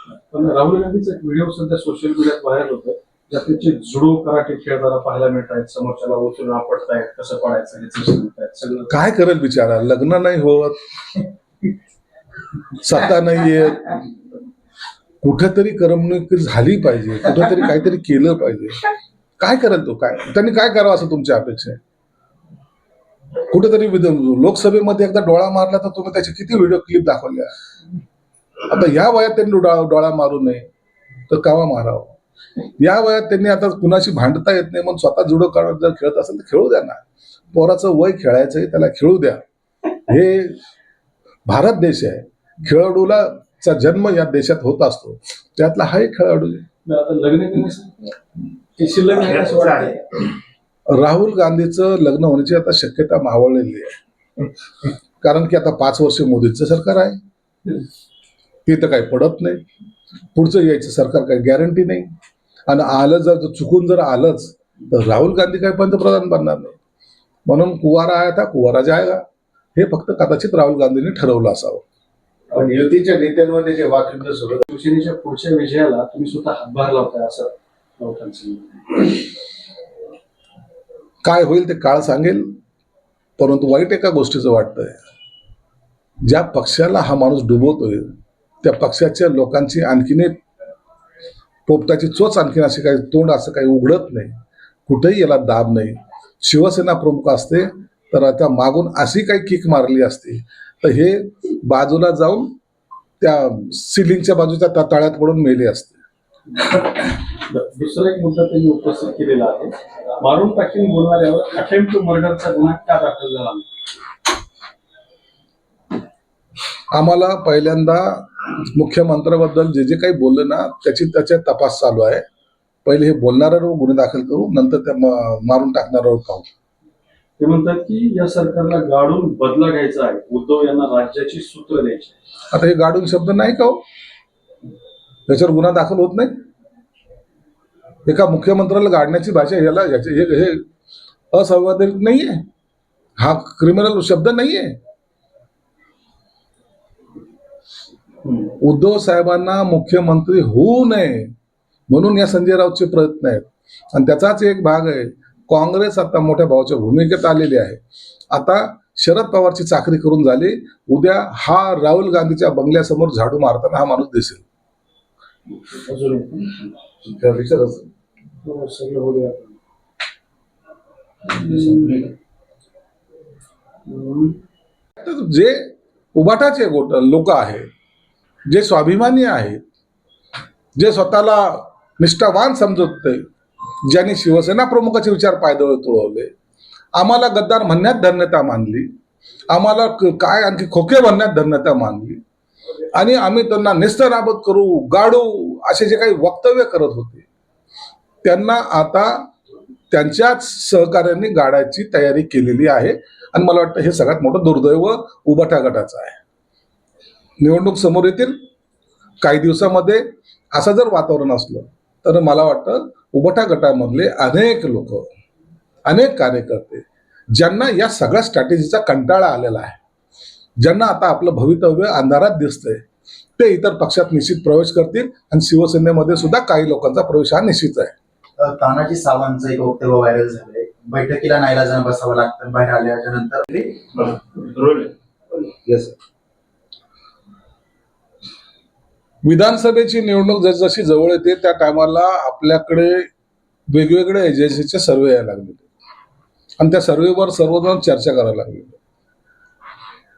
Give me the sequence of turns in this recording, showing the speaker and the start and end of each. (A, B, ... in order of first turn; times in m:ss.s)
0:00.2-0:08.9 A
0:08.9-0:10.8 B
0:12.8-0:13.9 B
0:15.2-0:18.8 B
0:19.4-0:21.8 B
0:23.5-0:27.5 B
0:28.7-0:30.6 B
0:31.3-0:32.1 B
0:32.8-0:37.0 B
0:37.5-0:39.4 B
0:40.0-0:40.6 B
0:41.5-0:46.6 B
0:46.8-0:48.1 A
0:48.8-0:50.0 A
0:50.9-0:54.0 B
0:55.2-0:57.2 B
0:58.6-0:59.6 B
1:00.3-1:02.1 B
1:02.7-1:06.8 B
1:07.5-1:09.2 B
1:09.7-1:11.8 B
1:12.5-1:14.6 C
1:14.7-1:19.2 A
1:21.2-1:22.5 B
1:23.4-1:25.0 B
1:26.2-1:30.4 B
1:31.6-1:42.5 B
1:43.2-1:46.0 B
1:46.6-1:53.7 A
1:56.9-2:02.2 B
2:02.8-2:06.5 B
2:07.4-2:12.1 A
2:12.5-2:13.8 B
2:15.3-2:16.3 B
2:18.0-2:20.6 B
2:21.3-2:22.4 B
2:23.2-2:24.8 B
2:28.6-2:31.3 B
2:31.9-2:37.8 B
2:38.3-2:44.4 B
2:45.9-2:46.2 A
2:47.0-2:47.9 C
2:48.4-2:49.6 A
2:51.3-2:52.0 A
2:53.8-2:54.4 A
2:55.0-2:57.6 B
2:58.5-2:59.6 B
3:00.8-3:03.2 B
3:03.8-3:06.3 B
3:06.9-3:08.9 B
3:09.5-3:12.2 B
3:12.9-3:17.2 B
3:18.2-3:19.3 B
3:19.9-3:26.2 B
3:27.4-3:28.4 B
3:29.2-3:35.0 B
3:35.8-3:39.8 B
3:40.6-3:42.8 B
3:43.4-3:47.9 B
3:48.4-3:53.5 D
3:53.6-3:55.9 C
3:59.2-4:03.1 B
4:03.7-4:05.6 B
4:06.6-4:08.8 B